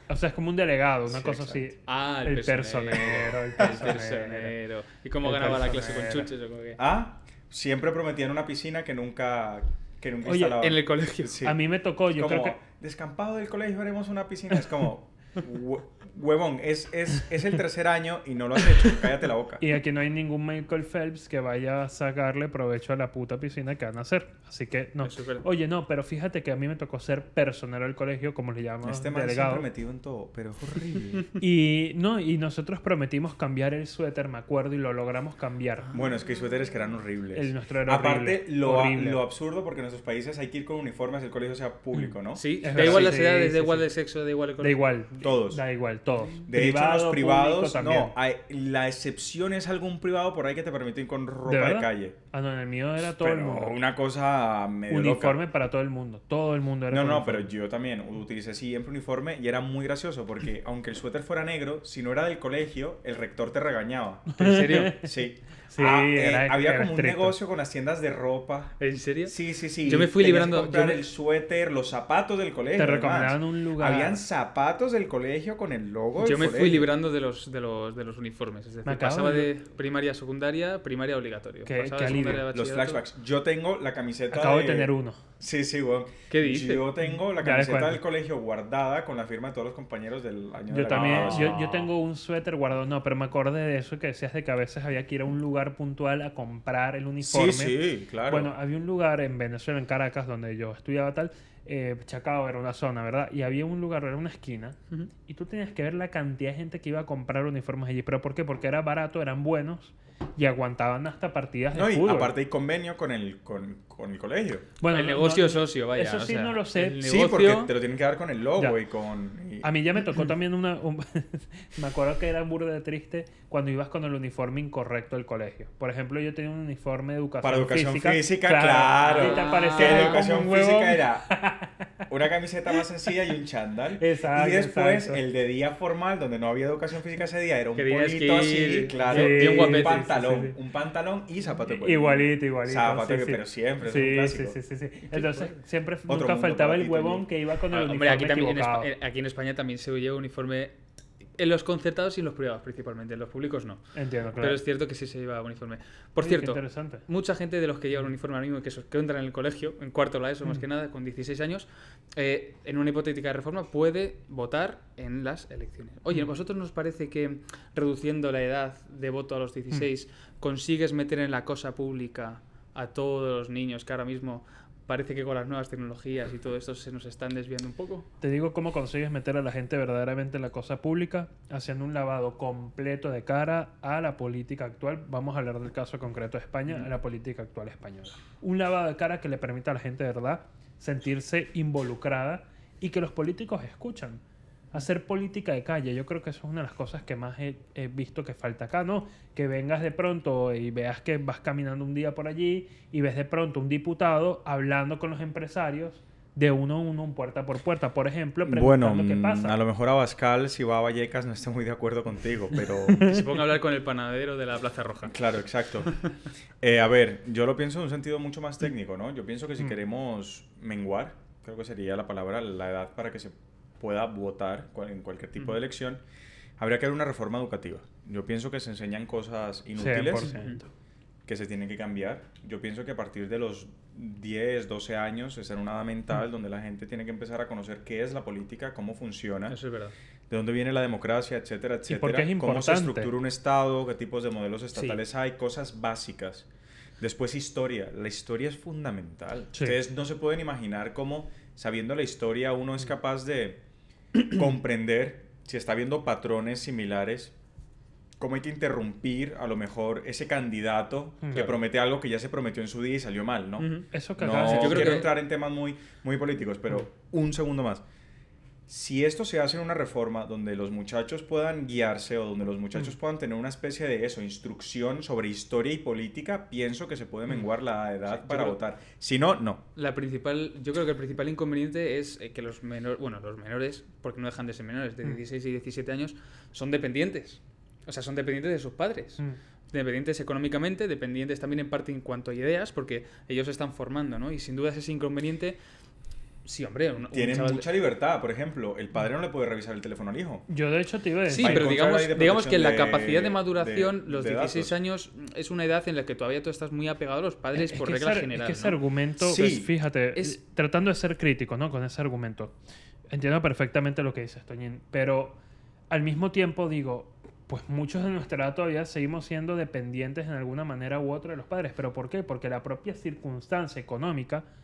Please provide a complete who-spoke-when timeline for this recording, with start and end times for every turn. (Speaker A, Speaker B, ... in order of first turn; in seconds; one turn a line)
Speaker A: 0.1-4.5
Speaker B: 1.1-1.6
Speaker C: 1.9-6.8
Speaker A: 5.2-6.3
Speaker B: 6.8-11.6
Speaker A: 10.2-10.6
Speaker C: 10.5-11.4
Speaker A: 11.4-12.6
Speaker B: 12.1-19.6
Speaker A: 19.6-29.7
Speaker C: 25.0-25.4
Speaker B: 28.8-31.3
Speaker A: 31.4-35.9
Speaker B: 35.9-43.2
Speaker A: 37.3-39.2
Speaker C: 42.3-44.8
Speaker A: 42.6-43.9
Speaker A: 44.6-48.1
Speaker B: 45.2-45.6
Speaker B: 46.5-52.1
Speaker A: 51.5-53.8
Speaker B: 53.0-55.4
Speaker A: 54.9-57.5
Speaker B: 56.9-76.9
Speaker A: 64.3-65.1
Speaker C: 64.4-65.0
Speaker A: 65.7-67.3
Speaker C: 68.8-71.1
Speaker A: 72.7-74.2
Speaker C: 76.2-83.0
Speaker A: 78.8-79.5
Speaker A: 81.7-82.5
Speaker B: 82.5-91.9
Speaker A: 84.3-85.2
Speaker C: 86.3-86.9
Speaker A: 87.1-88.0
Speaker A: 90.7-112.3
Speaker C: 90.9-91.7
Speaker B: 97.2-98.5
Speaker B: 111.7-114.7
Speaker A: 114.8-117.0
Speaker C: 114.9-117.7
Speaker B: 117.0-119.7
Speaker A: 119.6-131.9
Speaker B: 127.4-131.3
Speaker C: 129.0-130.3
Speaker B: 132.1-144.6
Speaker A: 134.0-135.2
Speaker C: 137.8-140.1
Speaker A: 139.1-140.5
Speaker A: 141.7-148.9
Speaker C: 145.1-145.5
Speaker B: 146.1-147.2
Speaker C: 147.7-150.8
Speaker C: 151.4-153.8
Speaker A: 153.9-154.6
Speaker C: 154.4-178.1
Speaker A: 156.2-157.0
Speaker A: 178.2-194.2
Speaker A: 194.7-209.6
Speaker B: 208.4-213.2
Speaker A: 212.9-213.2
Speaker C: 213.0-215.2
Speaker B: 215.0-215.9
Speaker B: 216.6-226.0
Speaker B: 226.6-230.4
Speaker A: 229.8-230.7
Speaker C: 230.3-230.6
Speaker B: 231.2-239.6
Speaker C: 239.5-239.9
Speaker B: 240.3-246.5
Speaker A: 241.9-243.1
Speaker C: 244.7-245.0
Speaker B: 247.0-253.6
Speaker A: 249.5-249.8
Speaker B: 254.2-257.3
Speaker B: 258.2-267.8
Speaker A: 261.2-261.5
Speaker C: 263.6-265.1
Speaker A: 263.9-265.1
Speaker B: 268.7-279.6
Speaker C: 278.1-278.6
Speaker C: 279.8-295.6
Speaker C: 296.4-297.7
Speaker B: 297.1-300.4
Speaker A: 300.5-301.7
Speaker C: 301.3-308.8
Speaker B: 301.4-304.8
Speaker A: 307.6-312.6
Speaker B: 309.2-309.7
Speaker A: 313.1-315.4
Speaker A: 315.9-324.4